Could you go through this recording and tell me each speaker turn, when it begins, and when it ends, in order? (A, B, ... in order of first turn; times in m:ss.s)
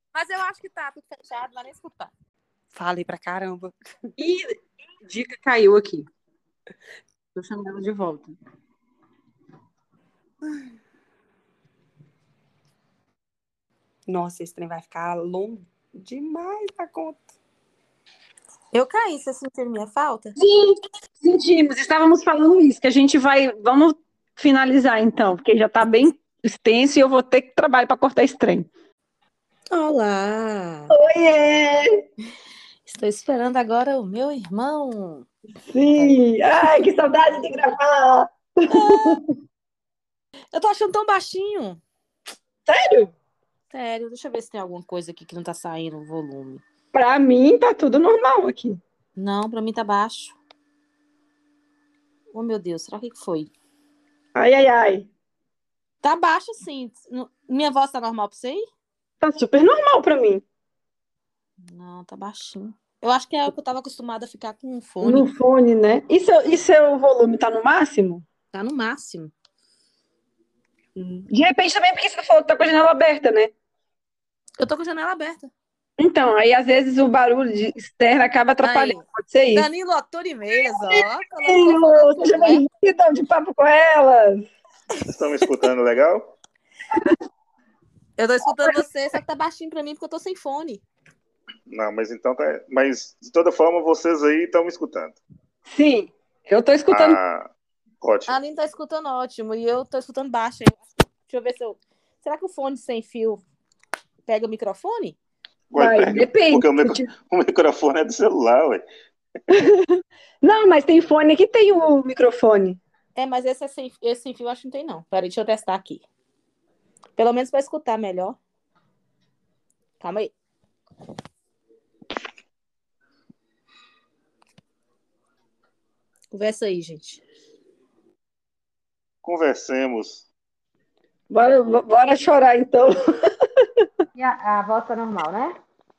0:00.1-0:02.1 A
0:02.7-0:03.7 B
0:04.2-0:06.0 C
0:07.3-0:08.3 C
0:14.1-0:17.2 B
0:18.7-0:20.3 A
0:20.4-0:28.7 C
0:29.7-0:30.9 A
0:30.9-0:32.0 C
0:32.8-0:35.3 A
0:35.7-0:39.2 C
0:38.7-0:39.2 A
0:40.5-0:41.8 A
0:42.7-0:43.1 C
0:43.7-0:46.6 A
0:46.9-0:48.8 C
0:49.2-0:50.4 A
0:52.3-0:53.5 A
0:54.3-0:55.1 C
0:56.0-0:58.7 A
0:59.2-1:00.4 C
1:01.6-1:05.3 A
1:05.0-1:08.2 C
1:08.5-1:09.3 A
1:11.0-1:13.5 C
1:14.6-1:15.5 A
1:16.0-1:19.7 C
1:18.6-1:22.6 A
1:20.9-1:24.5 C
1:25.0-1:26.3 D
1:28.2-1:30.8 A
1:31.7-1:35.2 D
1:35.7-1:37.2 C
1:36.9-1:37.5 D
1:38.0-1:38.4 D
1:38.3-1:43.4 A
1:44.2-1:45.2 A
1:45.7-1:48.8 D
1:45.7-1:47.1 C
1:49.5-1:52.8 C
1:53.2-1:56.0 A
1:57.2-1:58.4 A
2:00.0-2:00.3 A
2:06.3-2:07.2 A
2:09.2-2:10.2 D
2:11.3-2:13.8 C
2:14.1-2:15.5 A